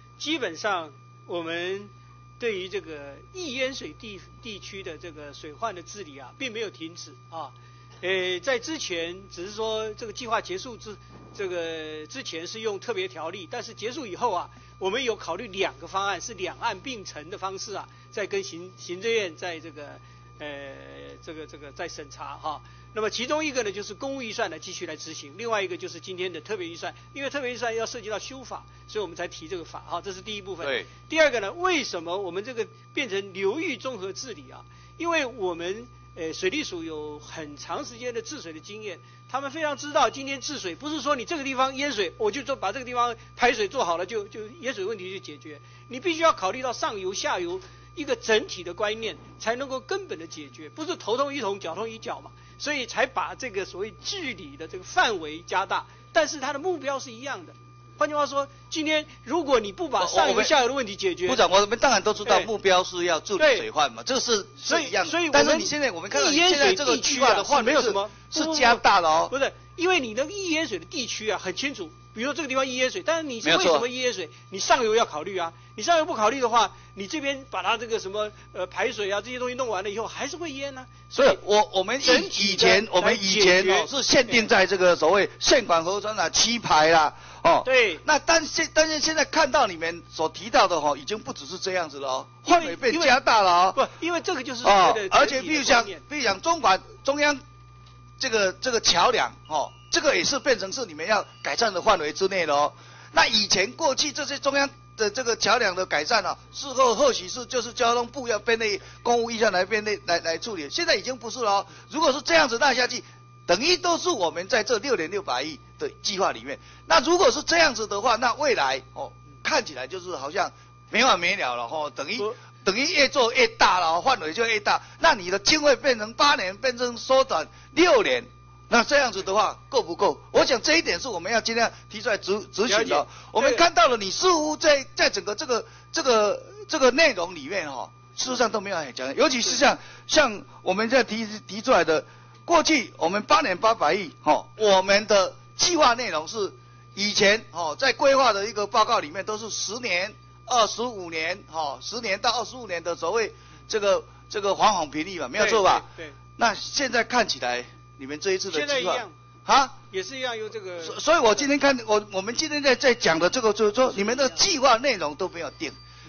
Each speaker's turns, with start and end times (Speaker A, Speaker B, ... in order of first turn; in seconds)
Speaker A: 0.2-61.4, 62.2-62.5, 63.4-63.7, 64.6-81.4, 82.0-84.5, 87.7-88.0, 92.5-93.2, 93.8-96.0, 132.7-133.7, 155.4-156.2, 158.5-159.1, 159.9-161.4, 163.8-164.4
Speaker B: 30.6-30.9, 60.0-60.5, 61.3-69.3, 73.4-73.9, 81.1-93.8, 94.6-97.4, 98.2-159.8, 160.8-165.8